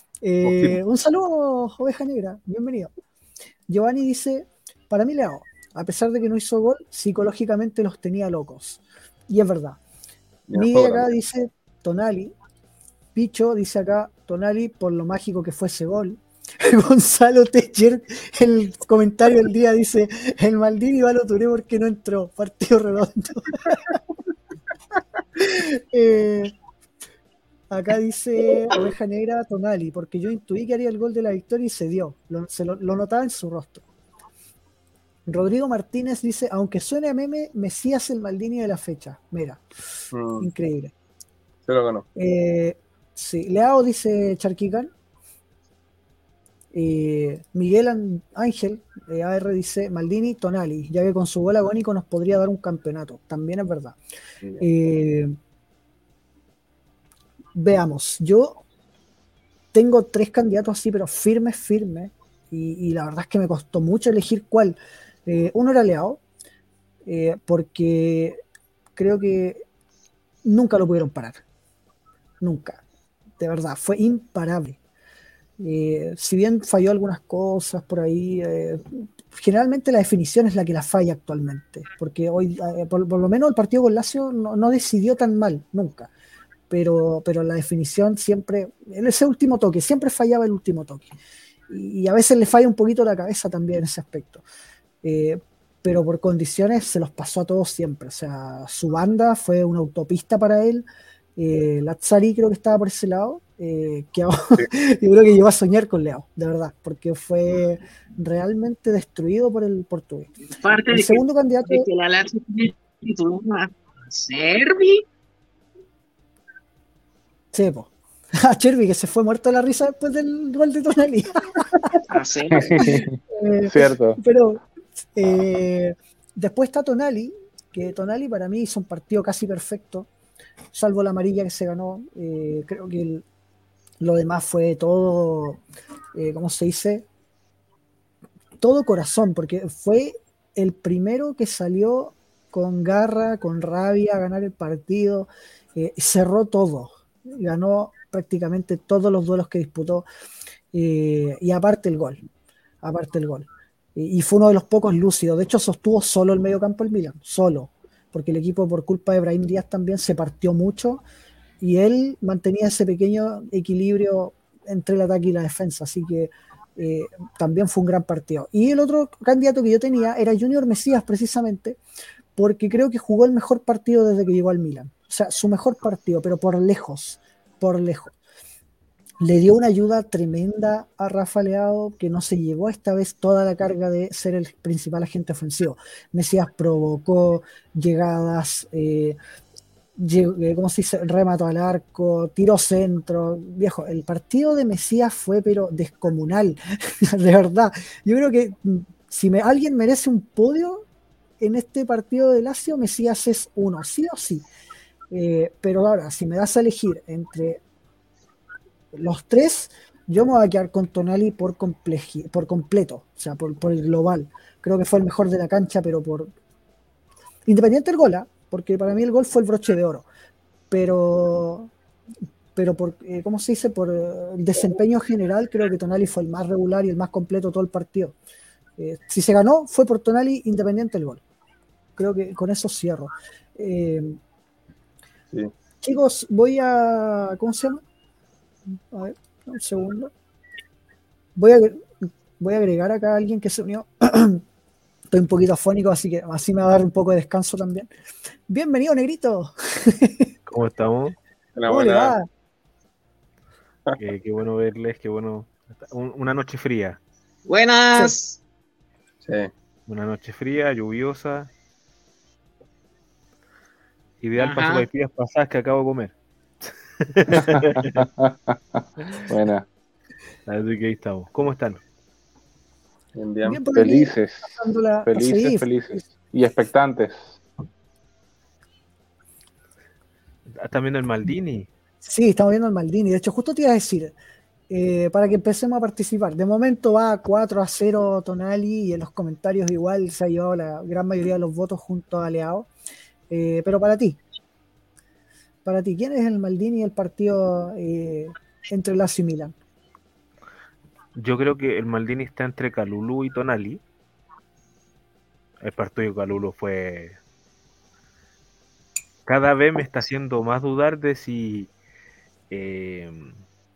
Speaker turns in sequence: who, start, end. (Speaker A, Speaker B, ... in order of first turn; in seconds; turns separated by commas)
Speaker A: 0.2-2.9, Speaker B: 0.4-0.8, Speaker A: 3.7-9.8, Speaker B: 10.5-11.1, Speaker A: 10.6-12.3, Speaker A: 13.2-24.0, Speaker A: 25.4-26.5, Speaker A: 27.7-33.8, Speaker A: 35.3-39.6, Speaker B: 40.1-40.5, Speaker A: 40.4-40.9, Speaker B: 41.7-42.1, Speaker A: 42.1-44.9, Speaker A: 46.7-54.0, Speaker A: 54.6-55.4, Speaker A: 57.5-58.6, Speaker A: 59.7-66.2, Speaker A: 67.1-68.4, Speaker A: 69.0-69.6, Speaker A: 70.4-71.4, Speaker A: 72.4-72.8, Speaker A: 73.4-74.8, Speaker A: 75.6-86.1, Speaker A: 86.7-91.2, Speaker A: 91.7-94.4, Speaker A: 95.0-100.9, Speaker A: 101.4-110.3, Speaker C: 110.6-115.0, Speaker A: 110.9-111.9, Speaker A: 117.5-122.0, Speaker C: 122.1-122.9, Speaker D: 122.5-124.2, Speaker A: 123.3-130.1, Speaker A: 130.7-133.2, Speaker A: 134.0-135.6, Speaker A: 136.2-137.1, Speaker A: 138.6-150.1, Speaker A: 150.7-152.2, Speaker A: 152.8-161.0, Speaker A: 161.6-171.8, Speaker A: 172.4-178.1, Speaker A: 179.2-189.2, Speaker A: 190.0-200.8, Speaker A: 201.4-204.4, Speaker A: 205.1-207.6, Speaker A: 208.9-216.3, Speaker A: 217.5-220.1, Speaker A: 220.7-221.7, Speaker A: 222.6-228.2, Speaker A: 228.8-231.2, Speaker A: 232.0-234.2, Speaker A: 235.8-237.8, Speaker A: 238.9-240.1, Speaker A: 241.4-244.4, Speaker A: 245.1-247.9, Speaker A: 248.5-250.3, Speaker E: 250.5-251.2, Speaker B: 251.6-252.2, Speaker A: 251.7-252.3, Speaker E: 254.0-257.0, Speaker C: 257.5-258.4, Speaker B: 259.2-259.5, Speaker E: 259.9-261.5, Speaker E: 264.2-266.1, Speaker C: 264.4-264.9, Speaker E: 267.0-268.0, Speaker D: 267.5-269.7, Speaker E: 270.5-271.8, Speaker B: 273.2-273.6, Speaker A: 273.5-276.1, Speaker D: 273.7-274.5, Speaker D: 275.1-277.4, Speaker E: 280.6-281.7, Speaker A: 282.1-284.2, Speaker A: 284.7-292.7, Speaker A: 293.3-294.2, Speaker A: 295.6-299.6, Speaker E: 301.2-303.8, Speaker E: 305.6-307.2, Speaker E: 309.3-311.7, Speaker E: 312.5-313.4